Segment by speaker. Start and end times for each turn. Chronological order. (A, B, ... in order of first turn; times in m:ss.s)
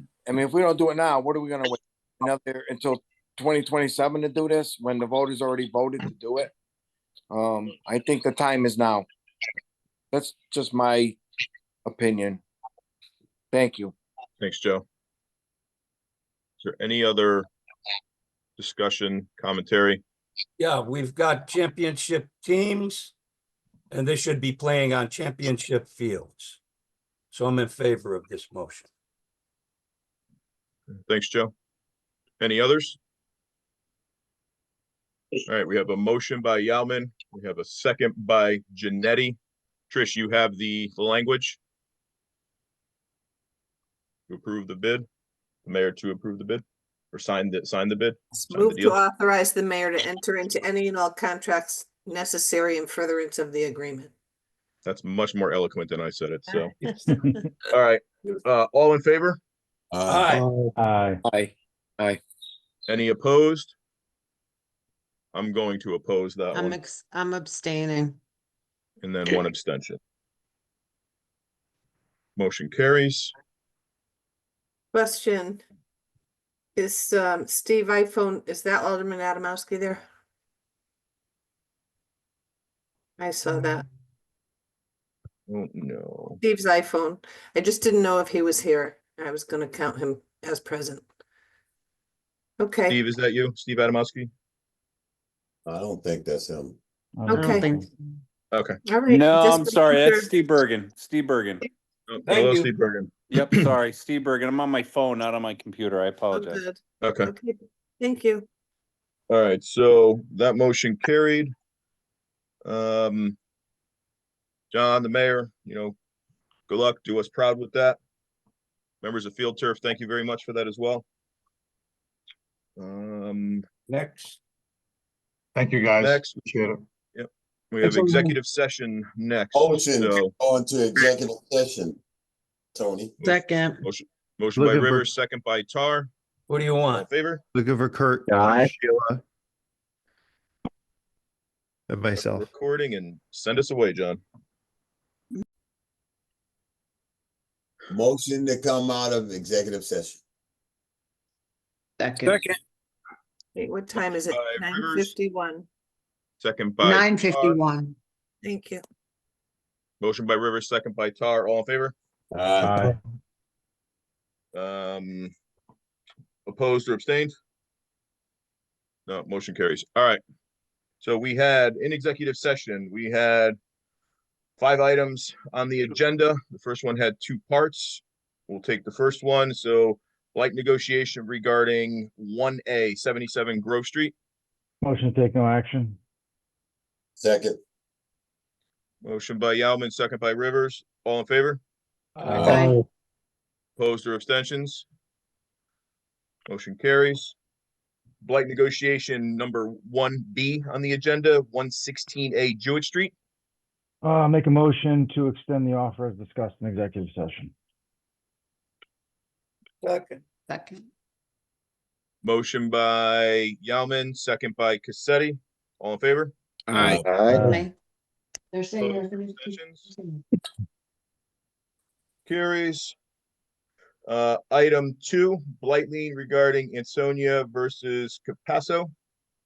0:00.2-0:06.5 A
0:07.3-0:09.0 A
0:10.1-0:11.2 A
0:11.8-0:12.4 A
0:13.5-0:13.9 A
0:14.4-0:14.8 B
0:16.6-0:17.5 B
0:18.6-0:20.0 B
0:20.6-0:23.1 C
0:23.9-0:26.6 C
0:27.3-0:28.9 C
0:31.0-0:31.5 B
0:32.4-0:33.0 B
0:35.5-0:39.4 B
0:39.9-0:41.6 B
0:44.3-0:45.0 B
0:45.6-0:49.0 B
0:48.5-0:54.1 D
0:54.8-0:56.8 B
0:57.7-0:59.4 B
0:59.9-1:00.4 E
1:00.0-1:00.4 C
1:00.8-1:01.2 F
1:01.2-1:02.2 A
1:02.9-1:03.7 B
1:05.3-1:06.8 B
1:06.5-1:08.2 G
1:09.0-1:10.0 B
1:12.4-1:13.3 B
1:14.9-1:15.6 D
1:16.8-1:20.0 D
1:23.2-1:23.8 D
1:25.5-1:26.4 B
1:26.4-1:31.0 D
1:32.6-1:33.0 D
1:32.9-1:34.3 B
1:35.6-1:36.8 E
1:37.2-1:37.9 F
1:37.3-1:37.7 D
1:37.3-1:38.2 G
1:38.5-1:38.8 B
1:38.8-1:40.3 D
1:39.1-1:41.6 H
1:42.1-1:43.8 B
1:43.3-1:46.6 H
1:46.3-1:48.4 D
1:47.0-1:47.3 B
1:49.3-1:51.5 B
1:52.6-1:53.4 B
1:54.7-1:56.0 B
1:56.7-1:58.0 B
1:59.0-2:01.0 B
2:02.8-2:03.6 B
2:03.9-2:04.4 C
2:05.6-2:06.8 I
2:06.0-2:06.4 B
2:07.1-2:10.3 B
2:07.8-2:08.2 G
2:09.5-2:12.0 E
2:12.7-2:13.1 E
2:13.2-2:16.1 B
2:13.2-2:13.8 G
2:14.6-2:15.1 I
2:16.5-2:17.1 C
2:16.9-2:17.4 B
2:17.5-2:19.2 I
2:21.9-2:22.5 I
2:22.1-2:24.2 B
2:27.9-2:30.2 E
2:32.0-2:32.5 G
2:32.2-2:32.6 C
2:33.5-2:35.6 D
2:34.0-2:35.1 B
2:36.4-2:37.6 B
2:36.8-2:38.0 G
2:38.4-2:38.8 D
2:40.0-2:41.9 B
2:42.3-2:42.9 E
2:42.6-2:43.0 F
2:44.5-2:45.3 B
2:46.4-2:47.3 B
2:49.1-2:50.2 B
2:51.0-2:53.6 B
2:54.6-3:04.1 B
3:04.8-3:06.0 F
3:07.2-3:07.6 E
3:09.0-3:11.6 B
3:12.2-3:12.8 C
3:12.2-3:12.7 E
3:12.4-3:12.8 G
3:13.8-3:14.8 B
3:16.5-3:17.3 B
3:18.2-3:23.1 B
3:24.0-3:27.5 F
3:30.5-3:30.9 G
3:32.2-3:36.3 B
3:36.7-3:37.5 I
3:36.7-3:37.1 E
3:37.3-3:37.5 F
3:37.3-3:37.7 G
3:38.5-3:40.2 G
3:38.8-3:39.9 B
3:42.2-3:42.9 B
3:44.0-3:48.9 B